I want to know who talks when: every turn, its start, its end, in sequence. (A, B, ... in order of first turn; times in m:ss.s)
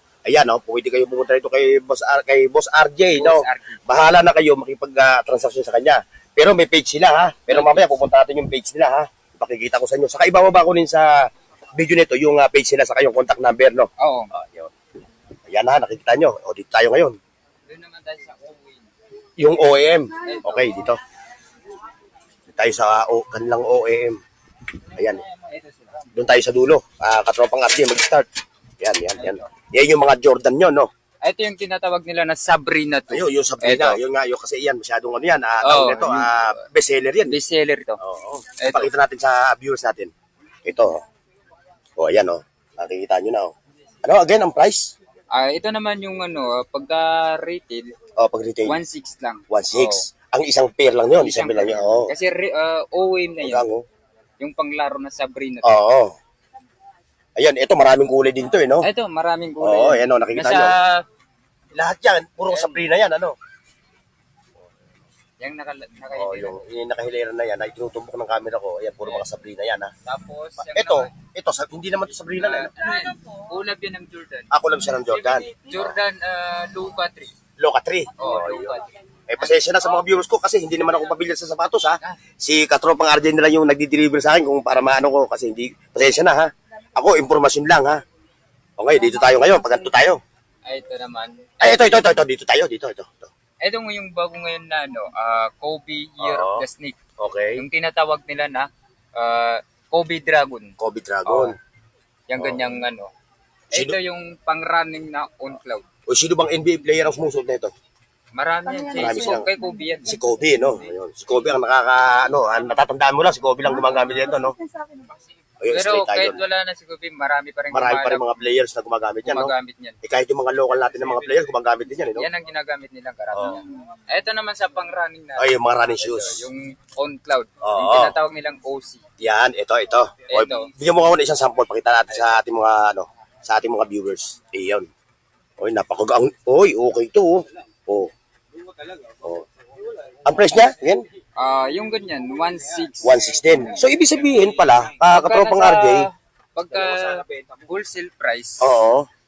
0:00.2-0:14.7 A
0:03.1-0:03.8 B
0:07.5-0:07.8 B
0:14.0-0:14.3 B
0:15.5-0:17.2 A
0:17.7-0:18.9 B
0:19.4-0:21.0 A
0:20.2-0:20.9 B
0:22.5-0:24.2 A
0:24.9-0:25.2 A
0:25.0-0:26.1 B
0:26.1-0:28.3 A
0:28.8-0:30.9 A
0:29.2-0:29.4 B
0:31.2-0:34.0 B
0:33.1-0:37.4 A
0:35.6-0:36.3 B
0:37.3-0:38.0 B
0:38.0-0:40.1 A
0:38.6-0:38.9 B
0:40.6-0:41.0 A
0:42.0-0:44.9 A
0:45.3-0:47.9 B
0:48.2-0:48.8 A
0:48.6-0:50.0 B
0:49.5-0:52.1 A
0:51.2-0:53.7 B
0:53.4-0:53.8 A
0:54.4-0:55.8 B
0:55.6-0:56.2 A
0:57.4-0:58.9 A
0:58.8-1:01.0 B
0:59.6-1:00.7 A
1:01.7-1:03.3 A
1:02.5-1:02.8 B
1:05.4-1:06.6 B
1:06.2-1:09.9 A
1:10.0-1:11.1 B
1:10.6-1:12.7 A
1:12.3-1:17.3 B
1:14.5-1:15.9 A
1:17.6-1:28.0 A
1:18.2-1:18.8 B
1:19.4-1:20.0 B
1:28.8-1:30.2 A
1:30.6-1:32.2 B
1:31.6-1:33.3 A
1:33.6-1:37.0 B
1:36.2-1:36.6 A
1:37.2-1:37.6 A
1:37.6-1:40.7 B
1:40.8-1:41.6 A
1:41.2-1:41.5 B
1:42.3-1:43.1 B
1:42.4-1:42.7 A
1:43.7-1:45.8 B
1:46.1-1:47.7 A
1:48.3-1:50.9 B
1:48.9-1:49.5 A
1:50.0-1:54.6 A
1:55.6-1:56.4 A
1:55.7-1:58.5 B
1:57.7-1:59.5 A
1:59.2-2:00.0 B
2:00.0-2:02.3 A
2:00.8-2:01.4 B
2:02.2-2:09.0 B
2:03.3-2:03.6 A
2:05.4-2:06.4 A
2:07.6-2:08.1 A
2:09.2-2:14.9 A
2:10.3-2:10.7 B
2:15.6-2:18.1 A
2:19.1-2:19.5 A
2:20.2-2:21.0 A
2:21.4-2:23.8 B
2:23.0-2:26.1 A
2:24.4-2:28.7 B
2:28.6-2:29.1 A